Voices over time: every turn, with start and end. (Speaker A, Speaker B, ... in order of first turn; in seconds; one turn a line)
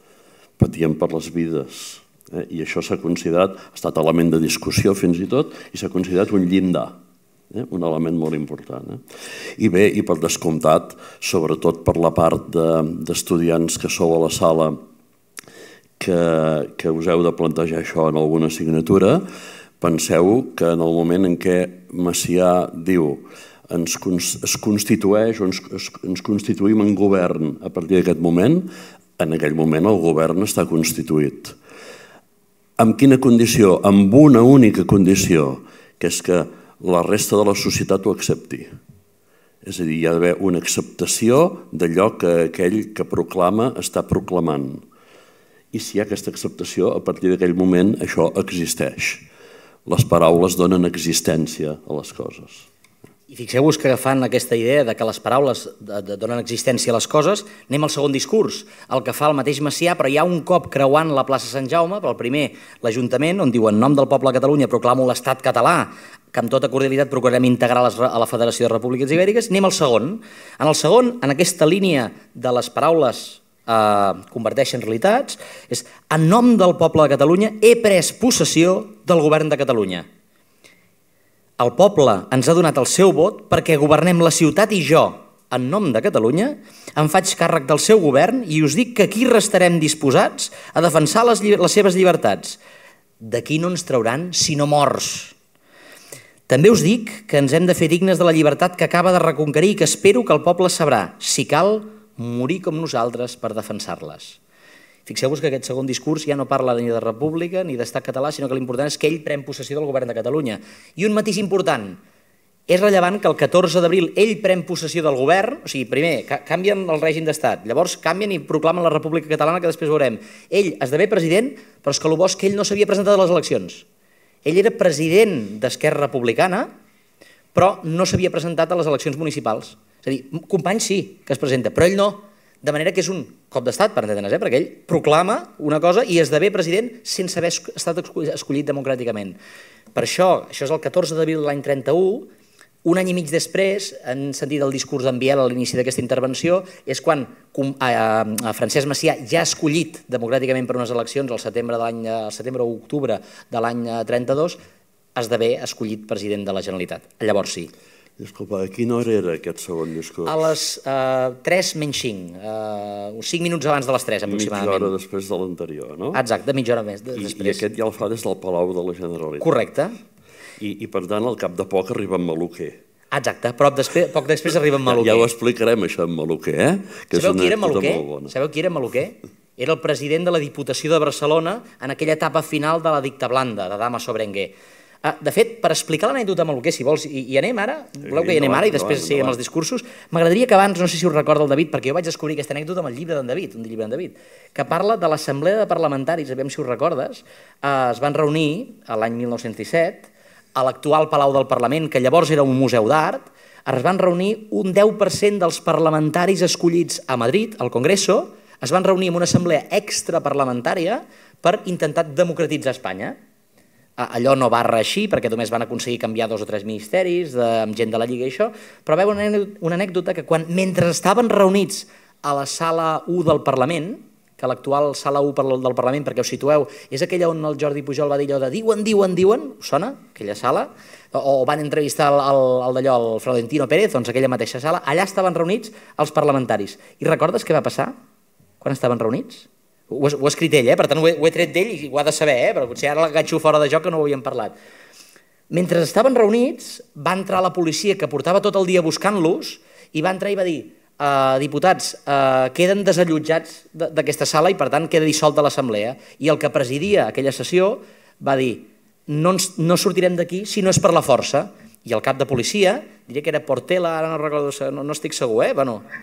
Speaker A: 0.6-6.9
Speaker A: 7.5-9.0
Speaker A: 9.6-14.8
Speaker A: 16.0-19.2
Speaker A: 19.8-31.6
Speaker A: 32.8-38.7
Speaker A: 39.6-44.8
Speaker A: 45.7-49.2
Speaker A: 49.9-52.7
Speaker B: 53.3-80.1
Speaker B: 81.6-92.6
Speaker B: 93.2-95.3
Speaker B: 96.5-104.4
Speaker B: 105.1-112.0
Speaker B: 112.7-123.8
Speaker B: 124.5-126.7
Speaker B: 127.5-139.4
Speaker B: 139.9-142.3
Speaker B: 142.8-154.6
Speaker B: 155.2-157.7
Speaker A: 158.2-160.5
Speaker B: 160.2-164.9
Speaker A: 164.3-166.2
Speaker B: 166.1-167.7
Speaker A: 167.2-169.5
Speaker B: 169.4-170.0
Speaker A: 170.6-172.8
Speaker B: 173.1-175.3
Speaker A: 174.9-178.3
Speaker B: 177.1-184.5
Speaker B: 185.0-213.2
Speaker A: 188.0-189.4
Speaker B: 214.0-237.9
Speaker B: 238.6-244.6
Speaker B: 245.5-265.9